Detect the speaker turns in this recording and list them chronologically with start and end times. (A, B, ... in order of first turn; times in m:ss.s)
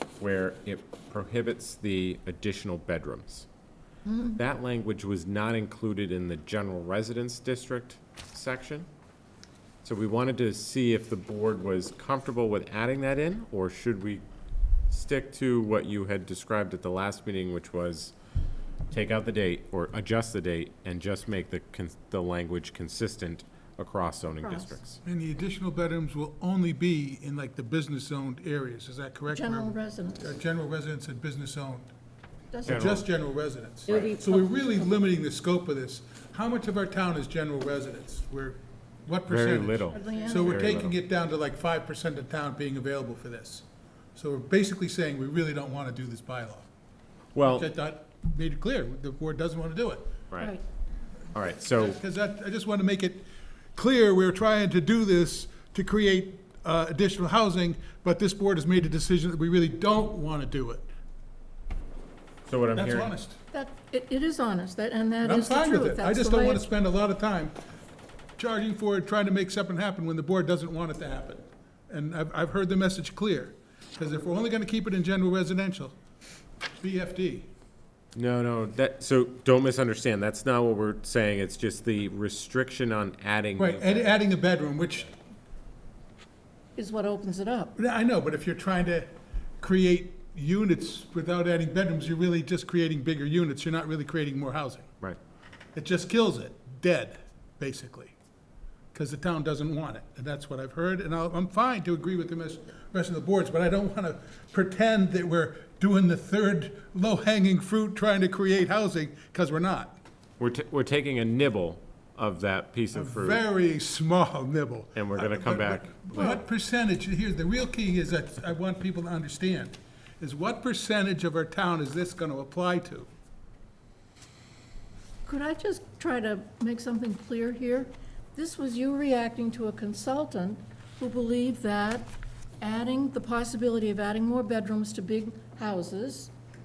0:00.2-0:03.4 A
0:04.0-0:04.4 B
0:04.4-0:08.9 A
0:09.8-0:14.2 A
0:14.9-0:18.1 A
0:18.9-0:25.0 A
0:24.4-0:24.8 B
0:25.0-0:31.9 C
0:29.3-0:30.3 B
0:32.5-0:33.0 B
0:32.6-0:43.6 C
0:32.6-0:33.0 A
0:39.3-0:40.9 A
0:39.9-0:40.8 B
0:44.2-0:46.7 C
0:47.3-0:47.7 A
0:47.4-0:50.2 C
0:50.4-0:50.6 B
0:51.3-0:52.0 A
0:51.7-1:00.9 C
1:02.4-1:03.1 A
1:02.7-1:03.4 C
1:03.5-1:06.6 B
1:05.2-1:07.6 C
1:08.4-1:15.9 C
1:16.8-1:17.5 C
1:18.1-1:24.0 A
1:23.6-1:25.1 C
1:26.8-1:27.7 B
1:27.8-1:34.9 C
1:35.7-1:38.1 C
1:38.9-1:50.0 C
1:50.4-1:53.4 A
1:52.9-2:03.1 C
1:54.9-1:56.3 A
1:56.1-1:56.4 B
2:05.2-2:16.3 B